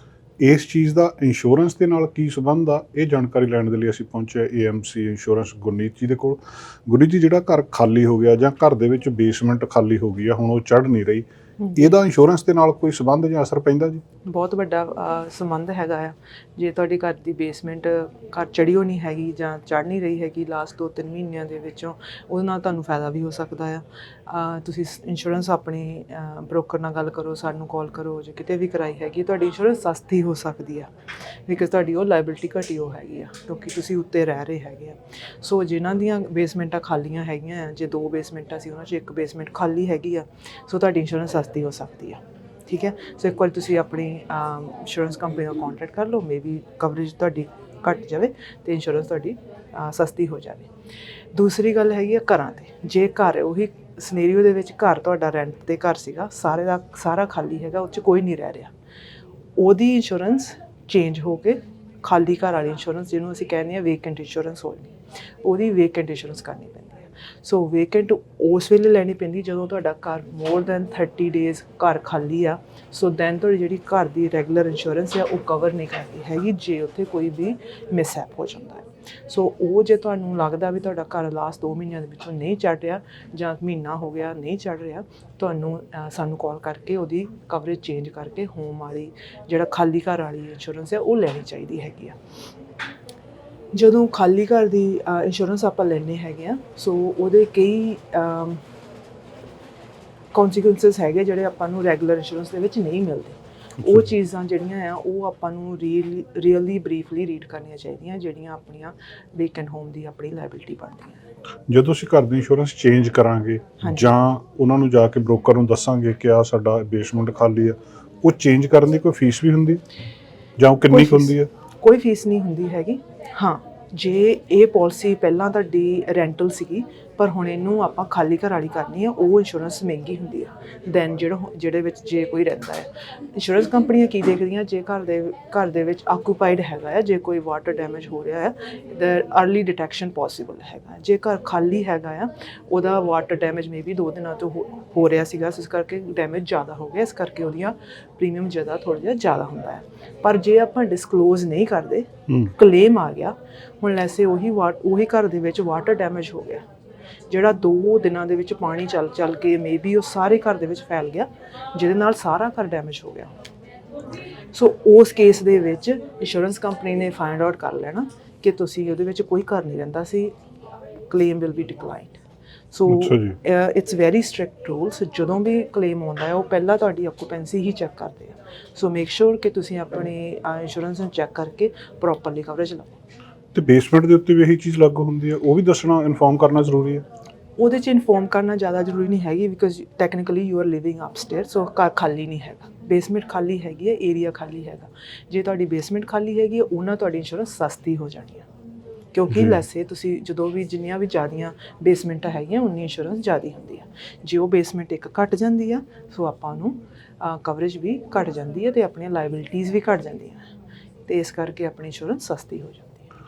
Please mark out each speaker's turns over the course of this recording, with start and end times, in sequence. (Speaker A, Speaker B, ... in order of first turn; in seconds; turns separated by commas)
Speaker A: 0.4-14.0, Speaker B: 14.3-30.9, Speaker B: 31.5-50.7, Speaker B: 51.3-58.7, Speaker B: 59.6-92.2, Speaker B: 93.7-98.6, Speaker B: 100.3-111.2, Speaker A: 103.8-104.1, Speaker A: 111.7-119.8, Speaker A: 120.6-121.5, Speaker B: 120.9-156.7, Speaker A: 152.3-152.5, Speaker B: 157.3-163.3, Speaker B: 164.5-170.3, Speaker B: 171.1-183.0, Speaker A: 172.9-173.4, Speaker A: 183.5-187.0, Speaker B: 187.6-198.5, Speaker B: 199.1-210.5, Speaker A: 199.3-199.6, Speaker B: 211.1-213.0